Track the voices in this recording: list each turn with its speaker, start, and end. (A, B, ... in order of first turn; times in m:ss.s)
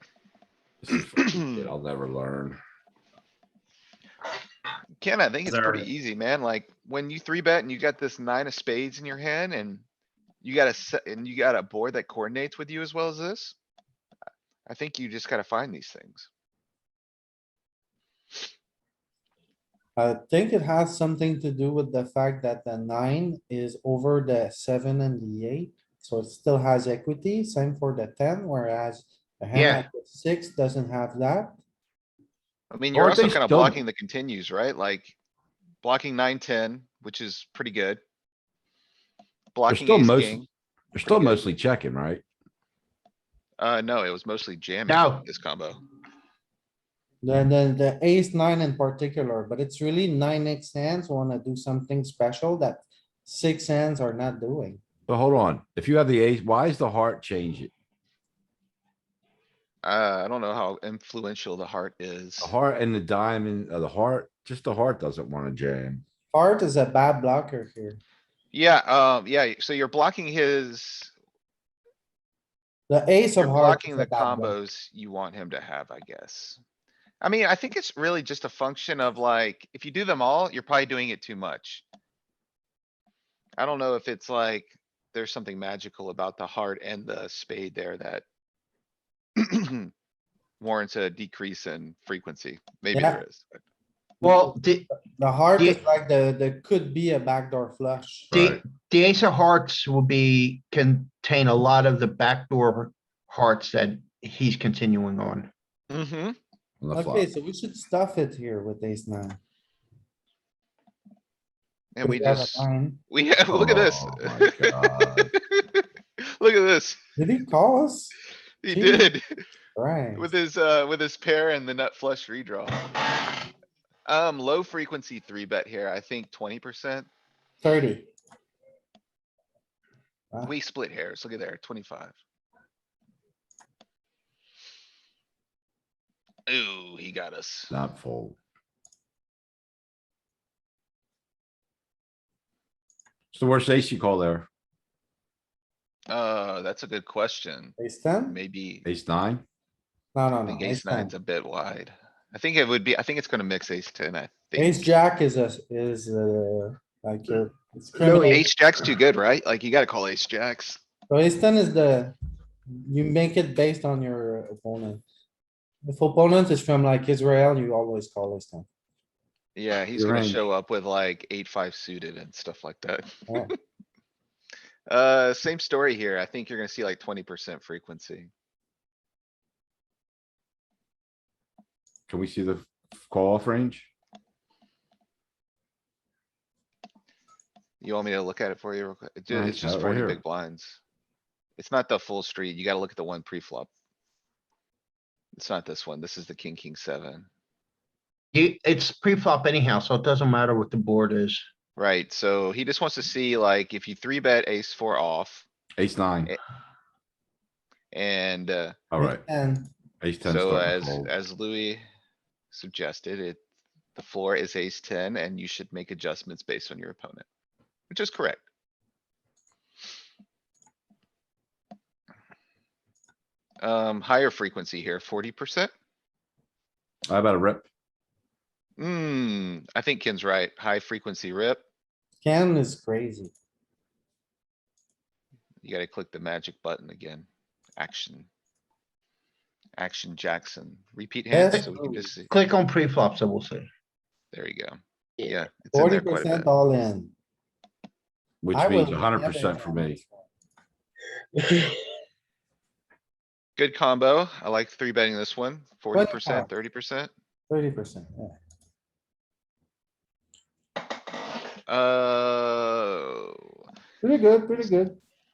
0:00.8-0:02.6 A
0:05.0-0:09.8 B
0:05.5-0:05.8 C
0:10.4-0:13.5 B
0:14.6-0:16.3 B
0:20.0-0:31.6 D
0:29.5-0:29.9 C
0:32.7-0:35.2 B
0:32.9-0:33.8 A
0:35.8-0:38.0 B
0:39.5-0:40.5 B
0:39.7-0:42.2 A
0:41.0-0:41.4 B
0:43.6-0:45.8 B
0:44.9-0:45.2 C
0:47.2-0:54.8 D
0:55.1-0:57.7 A
0:59.8-1:02.5 B
1:02.4-1:06.0 A
1:06.3-1:08.0 D
1:08.5-1:11.1 B
1:12.9-1:14.5 D
1:13.4-1:16.6 B
1:17.2-1:21.8 B
1:23.6-1:28.2 B
1:29.4-1:29.9 B
1:30.6-1:33.6 B
1:32.9-1:33.2 D
1:34.2-1:38.3 D
1:34.2-1:34.9 C
1:38.3-1:38.6 A
1:38.3-1:45.5 C
1:45.9-1:46.4 B
1:46.8-1:47.2 A
1:46.9-1:49.4 D
1:51.9-1:55.8 B
1:52.0-1:53.0 D
1:53.5-1:55.3 A
1:56.4-1:57.0 B
1:57.2-1:58.1 D
1:58.6-1:59.4 B
1:58.7-1:59.1 D
1:59.7-2:00.3 D
2:00.2-2:02.9 B
2:04.0-2:07.1 B
2:07.6-2:08.1 D
2:10.4-2:12.1 B
2:16.5-2:17.7 B
2:17.7-2:18.4 A
2:23.3-2:24.5 A
2:26.1-2:28.8 B
2:27.8-2:28.4 D
2:28.8-2:29.4 A
2:30.1-2:31.1 D
2:30.4-2:34.9 B
2:34.6-2:38.5 D
2:38.0-2:38.4 C
2:38.1-2:40.8 B
2:41.1-2:42.1 D
2:42.8-2:45.0 D
2:45.8-2:48.7 D
2:49.5-2:53.6 B
2:50.0-2:50.4 A
2:54.9-2:58.3 B
3:02.1-3:03.9 A
3:07.8-3:10.8 B
3:09.3-3:10.2 A
3:11.6-3:13.7 B
3:15.4-3:17.3 B
3:18.3-3:21.4 C
3:21.8-3:25.5 B
3:25.8-3:26.3 A
3:27.9-3:28.8 B
3:28.9-3:29.2 A
3:29.0-3:29.7 D
3:30.0-3:31.1 A
3:30.2-3:31.8 B
3:32.5-3:33.4 B
3:34.0-3:37.2 B
3:37.9-3:38.4 B
3:43.6-3:45.7 B
3:47.1-3:47.7 A
3:48.8-3:51.6 B
3:52.2-3:53.3 D
3:55.6-3:58.3 B
3:59.8-4:02.3 B
4:01.3-4:02.1 D
4:02.3-4:03.7 C
4:04.3-4:06.5 B
4:05.7-4:07.1 D
4:08.4-4:10.0 A
4:08.5-4:10.3 D
4:11.3-4:11.7 D
4:13.6-4:17.1 B
4:15.9-4:16.5 D
4:17.5-4:18.4 D
4:21.7-4:23.4 B
4:24.0-4:25.0 D